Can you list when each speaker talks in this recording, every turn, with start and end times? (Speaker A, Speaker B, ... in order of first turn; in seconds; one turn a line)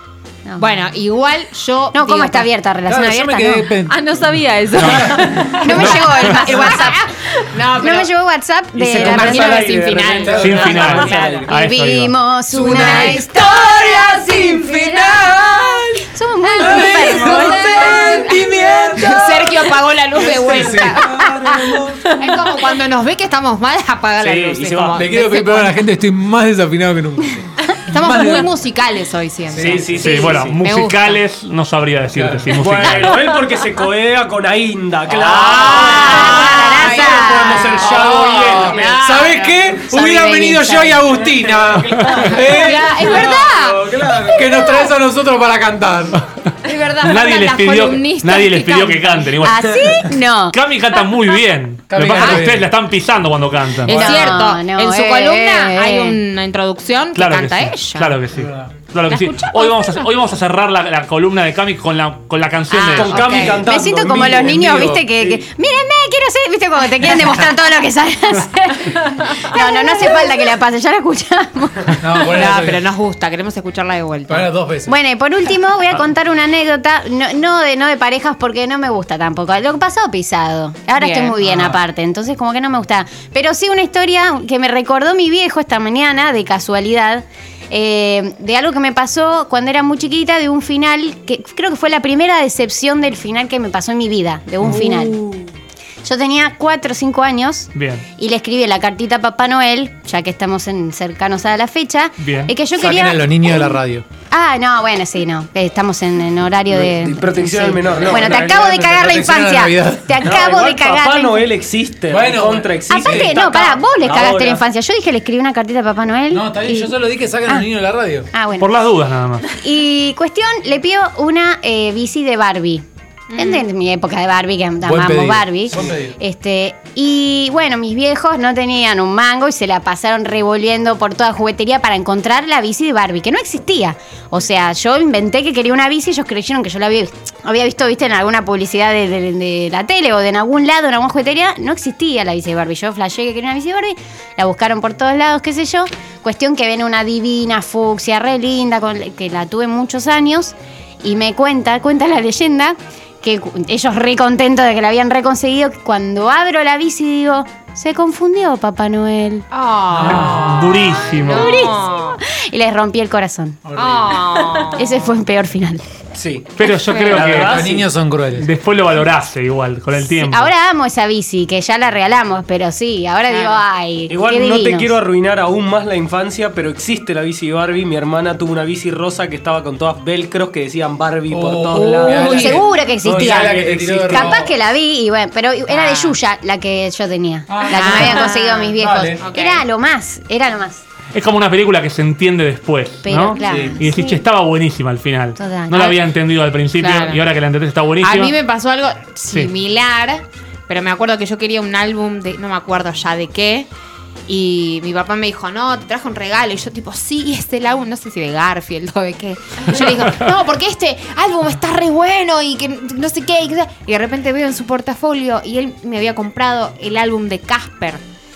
Speaker A: 0.5-0.8
Speaker B: 0.6-2.5
Speaker A: 1.9-3.7
Speaker C: 2.9-6.3
Speaker B: 3.9-8.1
Speaker A: 5.5-7.1
Speaker A: 7.8-9.7
Speaker D: 8.8-11.5
Speaker B: 8.9-11.5
Speaker C: 10.2-11.4
Speaker E: 10.4-12.2
Speaker A: 11.5-15.4
Speaker B: 12.5-15.8
Speaker C: 12.5-22.5
Speaker A: 16.0-18.2
Speaker B: 16.6-21.4
Speaker D: 20.2-21.9
Speaker B: 22.0-25.8
Speaker D: 24.2-25.1
Speaker C: 24.9-28.5
Speaker B: 27.9-31.2
Speaker C: 29.5-30.0
Speaker D: 29.5-30.6
Speaker E: 30.0-33.2
Speaker C: 32.1-32.5
Speaker D: 32.5-39.2
Speaker C: 35.1-36.4
Speaker B: 35.4-39.8
Speaker A: 35.7-37.8
Speaker C: 37.7-46.2
Speaker A: 39.9-41.0
Speaker D: 41.0-44.5
Speaker B: 42.4-44.9
Speaker E: 46.2-49.6
Speaker B: 46.6-49.5
Speaker A: 49.4-50.6
Speaker D: 49.6-50.0
Speaker E: 50.5-54.1
Speaker C: 51.9-52.7
Speaker B: 52.2-52.4
Speaker B: 53.9-58.2
Speaker C: 53.9-54.2
Speaker A: 53.9-56.2
Speaker E: 57.1-63.5
Speaker C: 58.3-58.7
Speaker B: 59.1-60.1
Speaker A: 62.7-72.2
Speaker B: 62.9-63.7
Speaker D: 62.9-65.5
Speaker C: 64.2-65.0
Speaker B: 69.3-70.4
Speaker C: 72.0-72.8
Speaker B: 72.2-74.5
Speaker C: 74.3-75.0
Speaker A: 74.9-95.2
Speaker B: 81.0-81.4
Speaker C: 81.4-81.8
Speaker A: 96.0-103.8
Speaker E: 97.8-98.0
Speaker E: 102.2-102.5
Speaker C: 102.8-104.0
Speaker A: 104.3-111.5
Speaker D: 106.7-108.7
Speaker C: 107.9-110.3
Speaker D: 110.2-114.6
Speaker C: 112.1-113.3
Speaker A: 112.9-117.7
Speaker C: 116.3-118.3
Speaker A: 118.3-118.7
Speaker E: 118.6-119.5
Speaker A: 119.5-159.5
Speaker B: 123.3-123.7
Speaker C: 124.8-126.2
Speaker B: 159.5-162.2
Speaker C: 159.9-160.8
Speaker E: 160.0-161.7
Speaker A: 161.2-163.6
Speaker C: 163.7-164.3
Speaker B: 163.8-165.1
Speaker A: 164.7-165.8
Speaker D: 166.2-166.5
Speaker E: 166.6-167.8
Speaker B: 166.6-167.2
Speaker D: 167.1-167.9
Speaker C: 167.2-168.5
Speaker E: 168.4-170.5
Speaker A: 170.0-175.0
Speaker B: 173.3-173.6
Speaker D: 174.1-184.4
Speaker C: 181.3-184.5
Speaker B: 181.8-182.6
Speaker A: 182.0-190.8
Speaker B: 185.7-186.2
Speaker C: 187.5-189.2
Speaker B: 187.7-189.7
Speaker E: 191.1-198.3
Speaker A: 193.0-194.2
Speaker C: 193.4-193.8
Speaker A: 195.4-196.0
Speaker B: 196.8-197.2
Speaker B: 198.0-203.7
Speaker B: 204.3-218.0